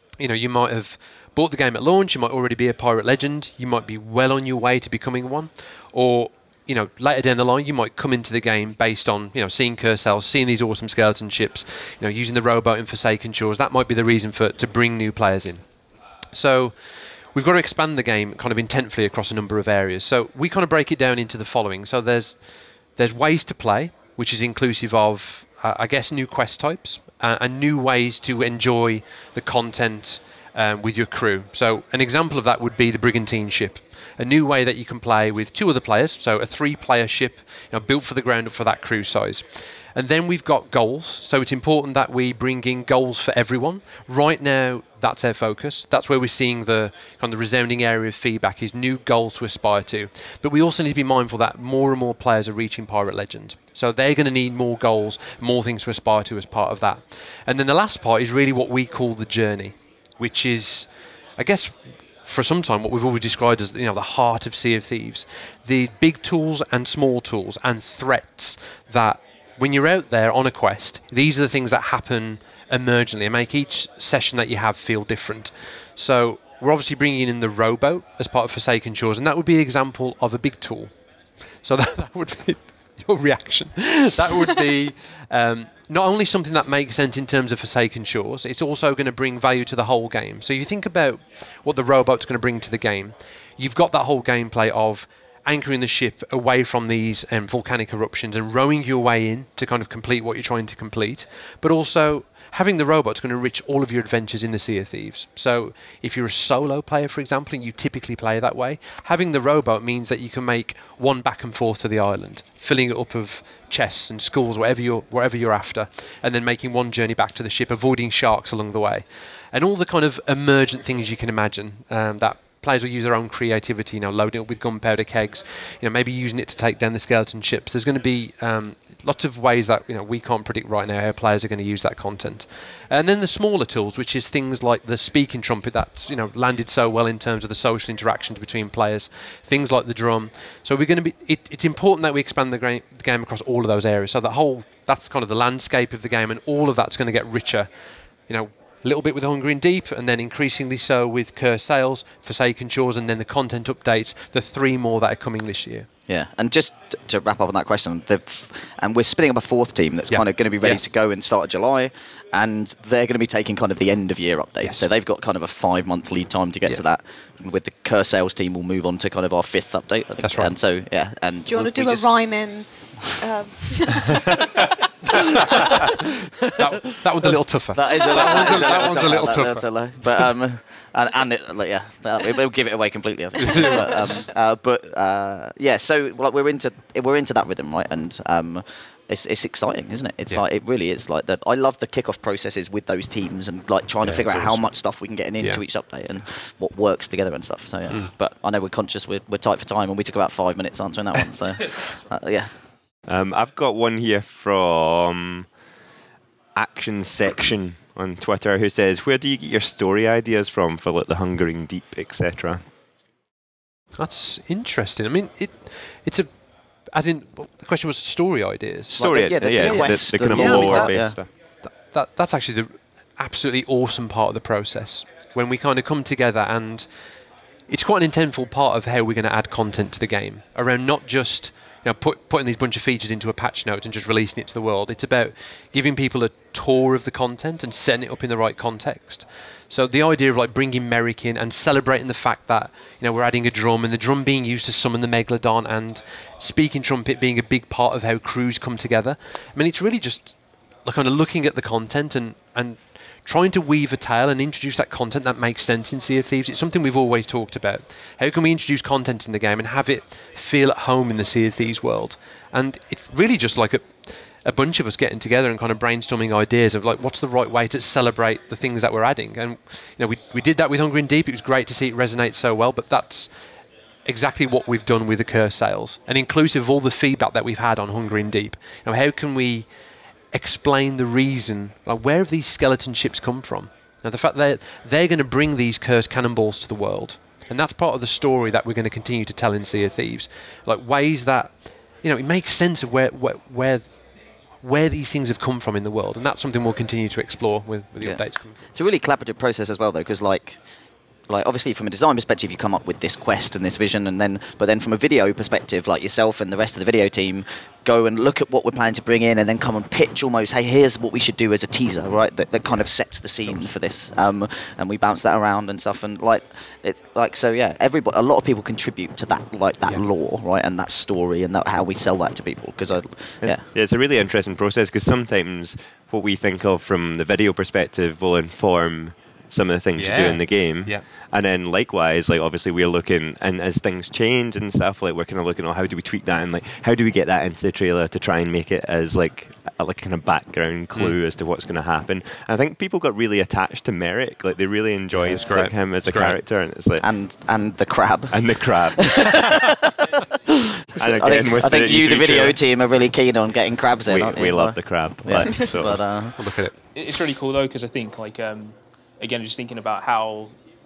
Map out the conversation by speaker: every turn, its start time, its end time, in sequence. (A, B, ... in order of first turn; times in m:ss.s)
0:00.2-2:35.9 A
2:36.1-2:52.2 B
2:40.1-2:40.8 A
2:44.6-2:44.9 A
2:50.2-2:50.6 A
2:51.5-2:55.8 C
2:56.5-3:00.3 A
2:57.7-3:22.7 B
2:58.2-2:58.7 C
3:03.5-3:03.8 A
3:14.0-3:14.8 A
3:23.1-3:25.5 D
3:26.6-3:32.6 D
3:34.0-4:39.7 A
3:38.9-3:41.3 D
3:39.0-3:41.2 B
4:40.3-4:58.6 A
4:58.0-5:00.6 B
5:01.3-5:23.6 B
5:13.4-5:13.7 A
5:23.5-5:47.1 D
5:30.0-5:31.0 A
5:45.2-5:46.4 A
5:47.0-5:56.6 B
5:48.3-5:49.6 D
5:51.0-5:52.6 D
5:54.0-5:56.0 D
5:56.4-5:56.8 A
5:56.9-6:00.5 E